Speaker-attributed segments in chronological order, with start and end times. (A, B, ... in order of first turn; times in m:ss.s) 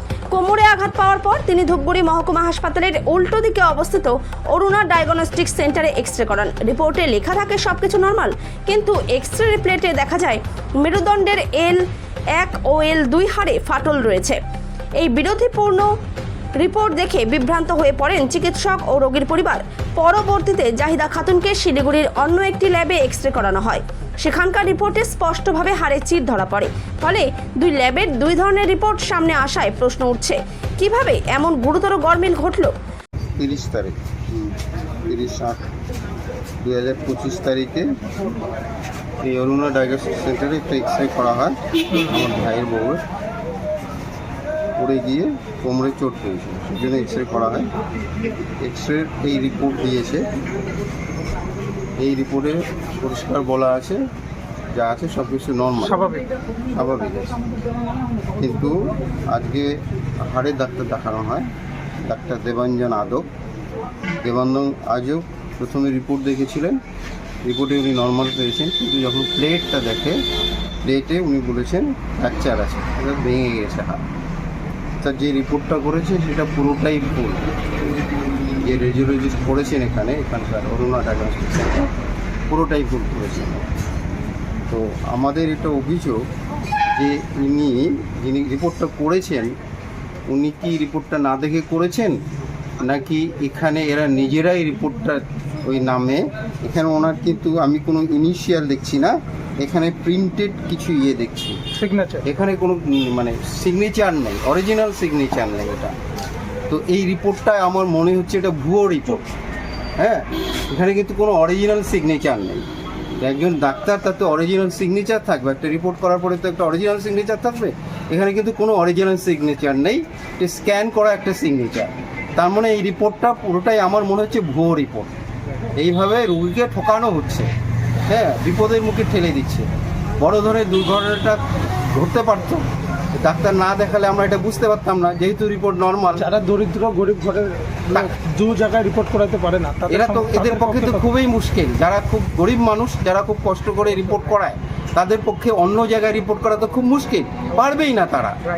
0:00.3-0:11.8 A
0:12.4-0:14.4 A
0:15.0-0:15.9 A
0:16.6-0:32.7 A
0:33.4-0:35.6 B
0:36.6-0:37.9 B
0:39.2-0:43.0 B
0:44.8-0:47.7 B
0:48.6-0:50.2 B
0:52.0-0:54.0 B
0:54.7-0:56.0 B
0:55.8-0:56.2 C
0:56.7-0:57.4 B
0:58.4-0:58.8 B
0:59.3-0:59.7 B
1:00.3-1:01.5 B
1:02.1-1:03.2 B
1:04.2-1:06.8 B
1:07.4-1:10.2 B
1:10.8-1:14.0 B
1:15.0-1:17.5 B
1:18.6-1:21.9 B
1:22.5-1:23.7 B
1:24.7-1:26.2 B
1:27.0-1:29.5 B
1:30.3-1:32.2 B
1:32.8-1:41.6 B
1:41.8-1:42.2 C
1:42.2-1:46.0 B
1:46.7-1:49.3 B
1:50.0-1:52.6 B
1:53.2-2:05.1 B
2:05.8-2:07.5 B
2:08.1-2:09.7 B
2:10.2-2:11.4 B
2:11.9-2:12.6 B
2:13.2-2:16.2 B
2:16.2-2:21.1 C
2:19.9-2:28.4 B